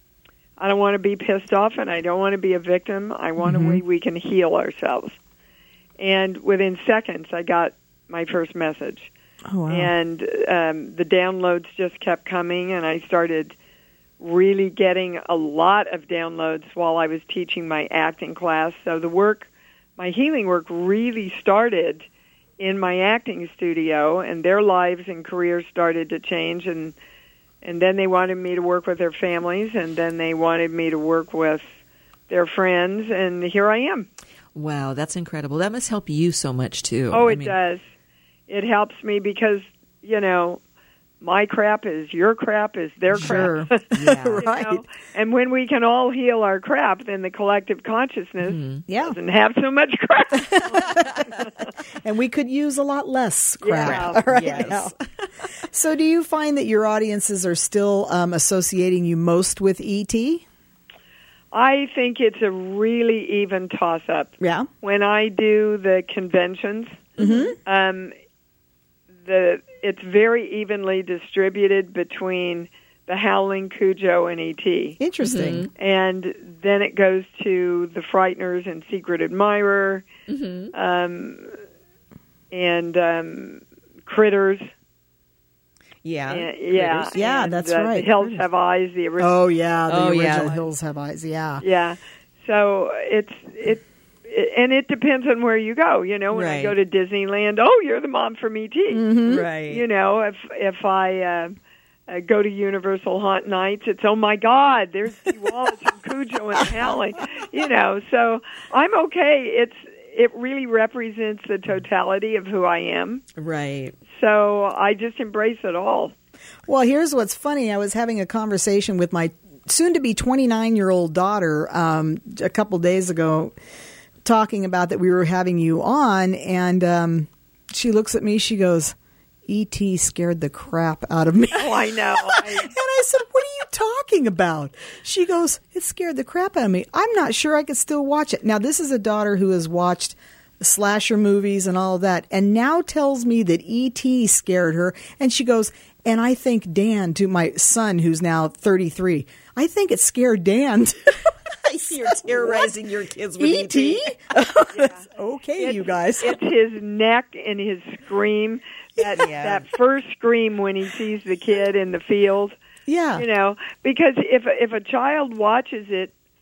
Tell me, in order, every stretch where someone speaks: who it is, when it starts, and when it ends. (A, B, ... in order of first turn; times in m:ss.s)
0:00.6-0:05.2 A
0:03.4-0:03.8 B
0:06.0-0:09.1 A
0:09.5-0:09.9 B
0:09.7-0:13.6 A
0:14.2-0:22.1 A
0:22.6-0:27.0 A
0:27.6-0:31.6 A
0:32.3-0:34.1 A
0:34.6-0:37.6 C
0:37.1-0:37.8 A
0:38.5-0:40.6 A
0:41.2-0:43.8 A
0:43.1-0:44.8 B
0:43.2-0:44.5 C
0:44.4-0:51.7 A
0:48.4-0:48.8 C
0:48.9-0:49.2 B
0:50.5-0:51.2 B
0:52.0-0:54.9 B
0:53.6-0:54.8 A
0:53.8-0:55.0 C
0:55.7-1:00.4 B
1:01.5-1:08.1 A
1:04.4-1:04.7 B
1:07.2-1:07.6 B
1:09.2-1:15.0 A
1:15.0-1:15.7 B
1:15.2-1:15.7 C
1:15.8-1:20.1 A
1:20.3-1:20.7 C
1:20.7-1:21.6 A
1:22.5-1:24.6 A
1:26.0-1:27.2 C
1:26.3-1:29.4 A
1:27.1-1:28.5 B
1:29.2-1:31.6 B
1:29.9-1:30.6 C
1:31.6-1:41.5 A
1:36.3-1:36.8 C
1:38.9-1:39.4 B
1:39.3-1:39.8 C
1:42.1-1:53.2 A
1:53.4-1:53.9 C
1:54.1-1:56.1 A
1:56.7-2:03.6 B
2:04.2-2:09.0 B
2:09.5-2:31.2 B
2:11.5-2:12.7 A
2:31.6-2:34.4 C
2:31.9-2:32.7 B
2:33.4-2:36.4 B
2:34.7-2:35.0 A
2:35.6-2:42.6 A
2:39.2-2:39.6 C
2:42.9-2:43.3 B
2:43.2-2:46.1 A